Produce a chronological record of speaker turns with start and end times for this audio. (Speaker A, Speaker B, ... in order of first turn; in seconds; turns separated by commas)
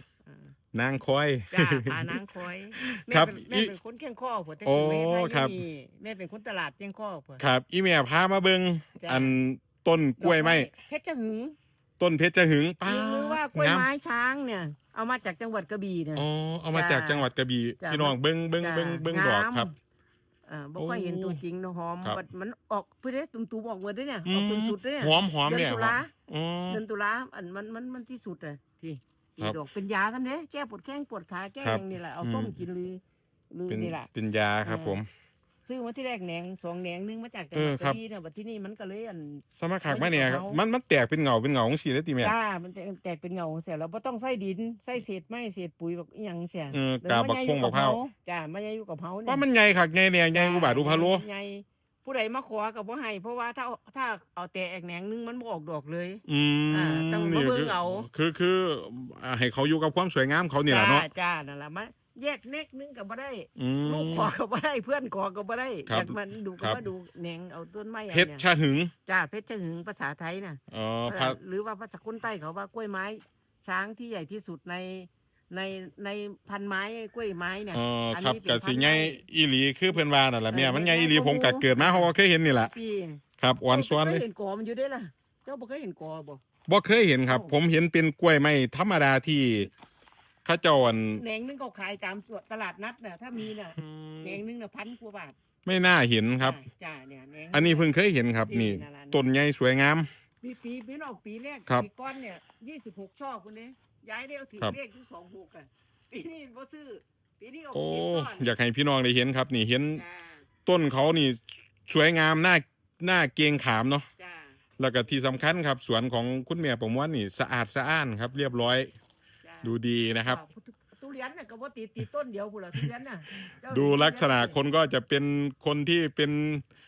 Speaker A: 0.2-0.5, Speaker B: 0.7-2.2, Speaker A: 1.5-7.4, Speaker B: 2.8-3.7, Speaker B: 4.7-5.6, Speaker B: 7.4-10.7, Speaker A: 9.0-9.4, Speaker A: 10.2-11.6, Speaker B: 12.0-13.9, Speaker A: 12.8-17.3, Speaker B: 16.2-19.7, Speaker A: 17.8-19.7, Speaker A: 20.5-26.1, Speaker B: 20.8-21.4, Speaker B: 24.3-26.8, Speaker A: 26.7-34.1, Speaker B: 31.6-32.6, Speaker B: 33.7-35.1, Speaker A: 34.6-35.0, Speaker A: 35.6-40.6, Speaker B: 37.5-38.0, Speaker B: 39.6-42.3, Speaker A: 42.2-49.4, Speaker B: 46.7-48.0, Speaker B: 49.3-51.2, Speaker A: 50.3-58.1, Speaker B: 56.3-61.1, Speaker A: 60.7-68.4, Speaker B: 63.6-64.3, Speaker B: 65.9-66.8, Speaker B: 68.1-68.9, Speaker A: 69.1-79.2, Speaker B: 70.7-71.4, Speaker B: 77.7-82.7, Speaker A: 80.5-82.1, Speaker A: 82.7-86.4, Speaker B: 83.4-84.2, Speaker B: 86.7-89.7, Speaker A: 87.3-87.5, Speaker B: 90.5-91.2, Speaker A: 91.2-95.4, Speaker B: 93.8-94.4, Speaker B: 95.7-96.6, Speaker A: 96.4-99.2, Speaker B: 97.5-100.1, Speaker A: 100.4-108.5, Speaker B: 107.7-110.0, Speaker A: 110.0-110.5, Speaker B: 110.7-114.1, Speaker A: 114.2-114.6, Speaker B: 114.8-118.9, Speaker A: 119.4-124.6, Speaker B: 119.6-120.4, Speaker B: 123.7-126.6